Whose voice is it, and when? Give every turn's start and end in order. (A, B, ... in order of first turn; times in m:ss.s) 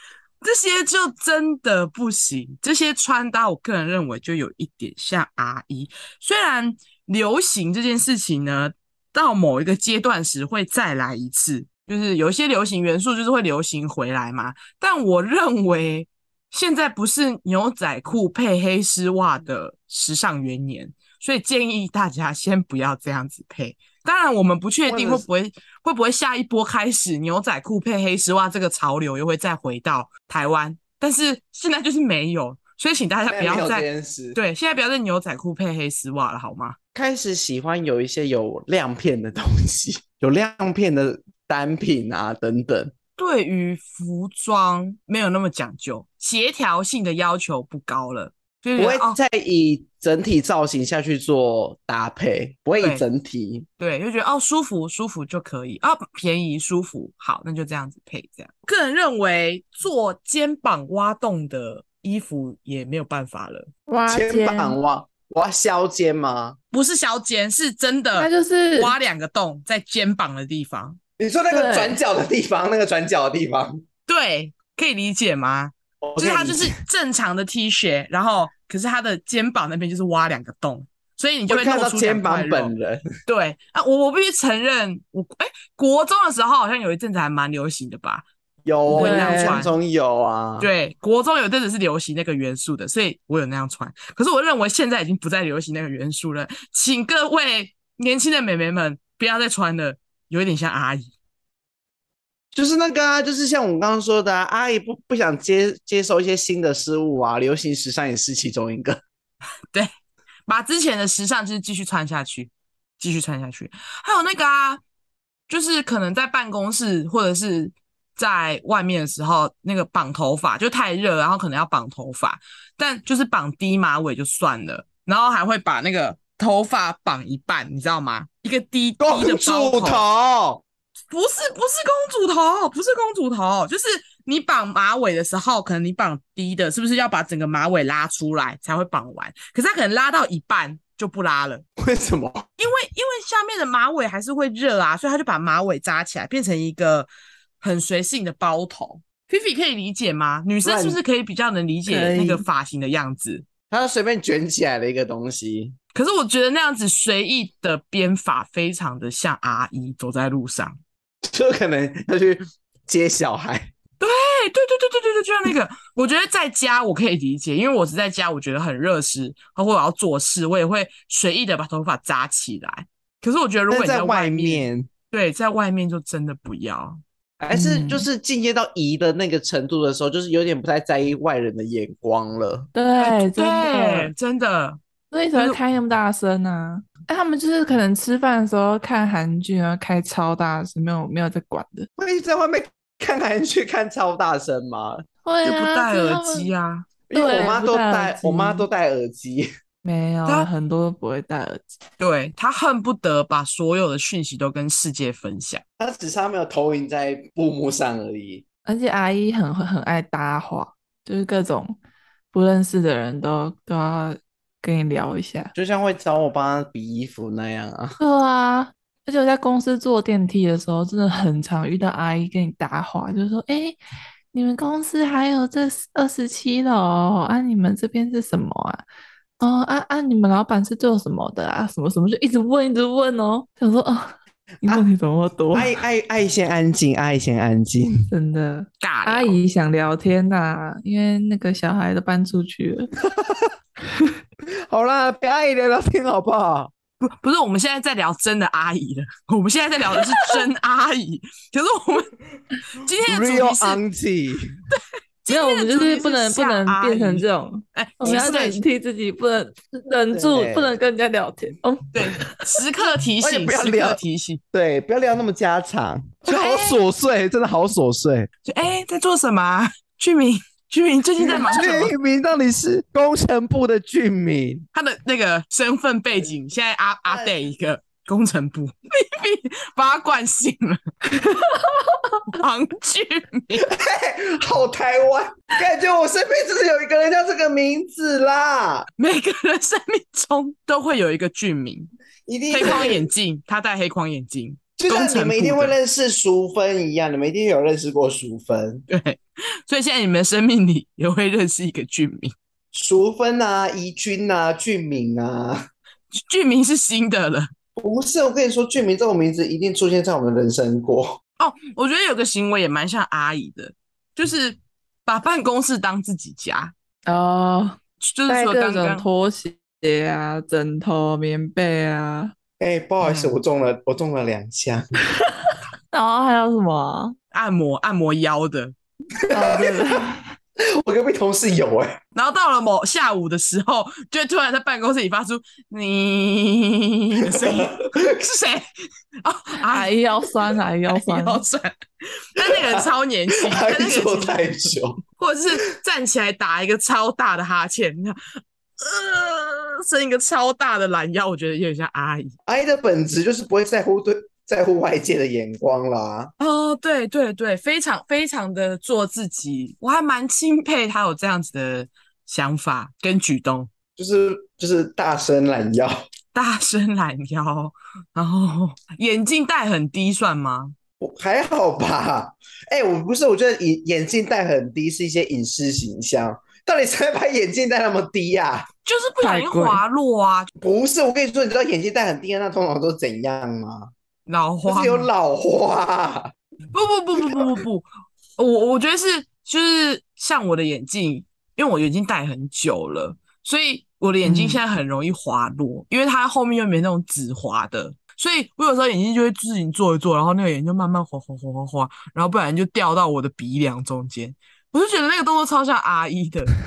0:00.4-0:36.8 A
0:24.9-0:25.2 B
0:33.3-0:34.4 B
0:36.9-0:42.9 B
0:43.2-0:49.2 A
0:48.8-0:53.6 B
0:53.8-1:03.7 A
1:03.9-1:04.8 C
1:04.1-1:06.6 B
1:06.7-1:11.0 A
1:08.1-1:08.9 C
1:11.2-1:13.8 B
1:11.5-1:12.0 C
1:14.1-1:22.7 A
1:16.0-1:16.7 B
1:21.5-1:23.0 B
1:23.2-1:28.2 A
1:28.6-1:30.7 B
1:28.9-1:29.6 C
1:28.9-1:29.7 A
1:30.6-1:41.1 A
1:42.5-1:49.0 B
1:50.5-1:54.8 A
1:55.5-2:10.0 A
2:09.0-2:10.6 B
2:11.1-2:21.6 A
2:21.8-2:22.4 B
2:22.6-2:27.1 A
2:27.6-2:33.4 A
2:30.6-2:31.0 B
2:31.9-2:32.4 B
2:33.7-2:35.8 B
2:35.9-2:40.8 A
2:41.2-2:43.7 B
2:44.0-2:57.0 A
2:53.7-2:54.9 B
2:57.4-3:02.7 B
2:57.5-2:58.1 C
3:02.7-3:04.1 C
3:03.0-3:04.8 A
3:05.1-3:11.9 C
3:12.0-3:15.0 B
3:15.2-3:16.5 C
3:15.4-3:16.9 A
3:17.1-3:19.5 B
3:17.1-3:18.7 C
3:19.8-3:21.6 C
3:22.0-3:25.6 A
3:25.8-3:28.4 B
3:28.6-3:31.8 C
3:32.3-3:35.5 C
3:35.5-3:38.0 B
3:38.0-3:43.8 C
3:44.3-3:48.8 C
3:49.4-3:55.7 C
3:55.5-3:58.1 B
3:58.1-4:02.9 C
3:58.8-3:59.4 A
4:03.0-4:03.5 B
4:04.7-4:06.7 B
4:07.0-4:12.1 A
4:12.7-4:13.8 A
4:13.0-4:14.5 B
4:14.7-4:18.6 A
4:15.3-4:22.4 C
4:20.1-4:20.7 B
4:21.9-4:24.4 A
4:23.2-4:24.0 B
4:24.5-4:28.3 B
4:26.3-4:26.8 A
4:28.4-4:31.9 A
4:31.3-4:34.6 B
4:34.7-4:40.8 A
4:37.0-4:37.3 B
4:41.1-4:42.1 C
4:42.3-4:43.6 A
4:43.6-4:48.9 B
4:49.0-4:51.9 A
4:52.3-4:53.1 B
4:52.5-4:55.7 A
4:54.8-4:58.8 B
4:58.9-5:02.3 A
5:02.7-5:05.6 B
5:06.1-5:07.5 A
5:07.8-5:11.2 B
5:11.4-5:16.7 A
5:17.1-5:22.3 C
5:18.0-5:19.1 A
5:22.6-5:24.8 B
5:23.0-5:23.4 A
5:25.9-5:27.1 C
5:27.3-5:28.7 A
5:29.2-5:30.0 B
5:29.3-5:30.2 C
5:30.8-5:32.0 B
5:32.1-5:38.6 A
5:37.2-5:38.1 B
5:39.2-5:44.4 A
5:39.7-5:41.4 C
5:42.4-5:45.0 B
5:45.2-5:48.2 A
5:48.8-5:52.3 A
5:52.5-5:56.3 B
5:56.4-6:03.7 A
6:04.0-6:05.9 B
6:06.3-6:10.8 A
6:11.0-6:18.7 B
6:18.8-6:20.5 A
6:19.2-6:19.8 C
6:20.6-6:23.9 B
6:24.3-6:25.1 A
6:24.6-6:26.3 B
6:26.7-6:46.5 A
6:34.2-6:34.6 C